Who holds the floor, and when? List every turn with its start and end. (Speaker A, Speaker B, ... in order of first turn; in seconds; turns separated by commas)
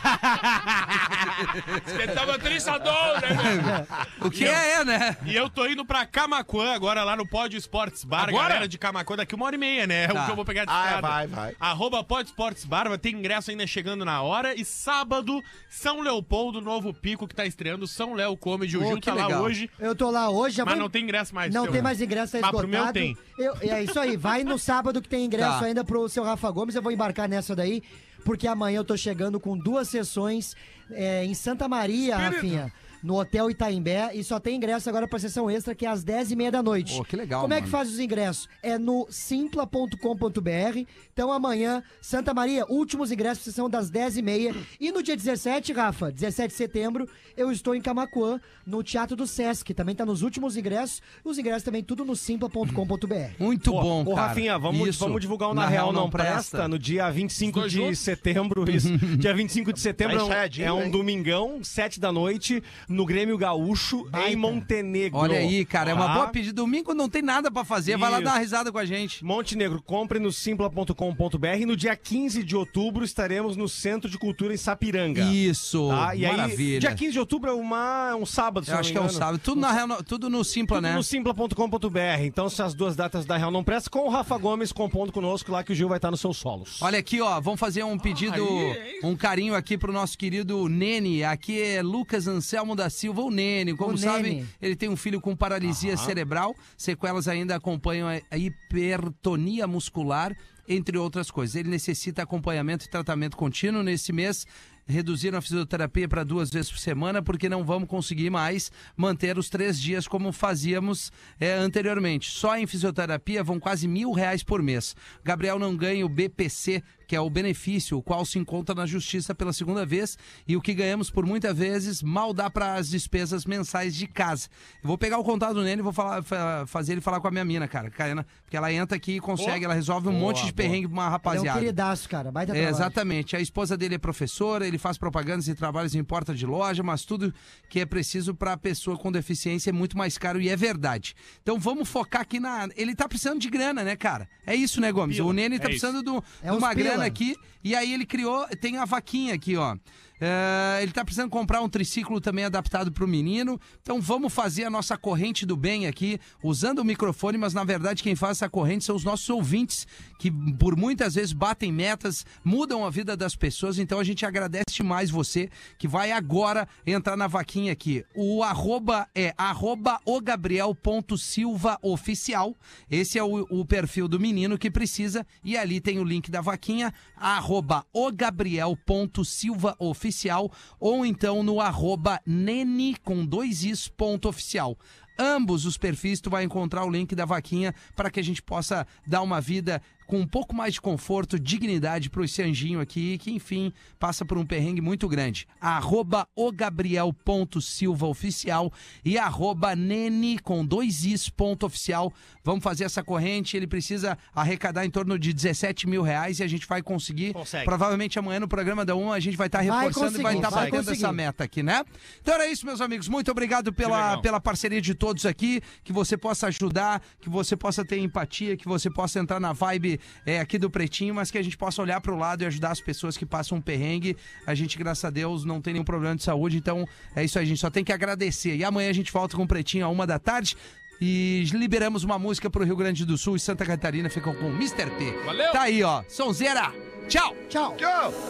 Speaker A: 1.4-1.8, Speaker B: 1.8-3.8, Speaker A: 3.3-5.2, Speaker C: 4.3-4.6, Speaker C: 5.2-19.7, Speaker B: 8.2-8.7, Speaker A: 10.1-10.4, Speaker D: 10.7-11.6, Speaker A: 18.7-19.5, Speaker E: 19.8-20.9, Speaker C: 20.6-23.2, Speaker E: 21.5-53.4, Speaker A: 25.4-25.7, Speaker C: 32.2-32.5, Speaker A: 36.9-37.8, Speaker A: 53.4-56.7, Speaker F: 53.6-66.3, Speaker B: 57.4-58.0, Speaker A: 58.6-59.2, Speaker D: 60.0-61.0, Speaker E: 64.1-64.6, Speaker A: 65.1-69.2, Speaker F: 67.9-68.3, Speaker F: 69.2-75.3, Speaker A: 75.1-77.0, Speaker F: 75.9-79.7, Speaker A: 78.7-81.0, Speaker F: 80.7-86.8, Speaker A: 86.8-131.7, Speaker F: 88.2-89.0, Speaker E: 93.8-94.5, Speaker F: 95.8-96.1, Speaker F: 130.1-130.8, Speaker E: 131.2-132.9, Speaker A: 132.5-237.4, Speaker C: 145.1-145.9, Speaker E: 146.4-147.2, Speaker F: 207.3-207.7, Speaker E: 209.6-211.2, Speaker F: 210.2-210.8, Speaker B: 213.8-214.2, Speaker B: 235.2-235.6, Speaker E: 237.5-237.8, Speaker D: 237.8-238.1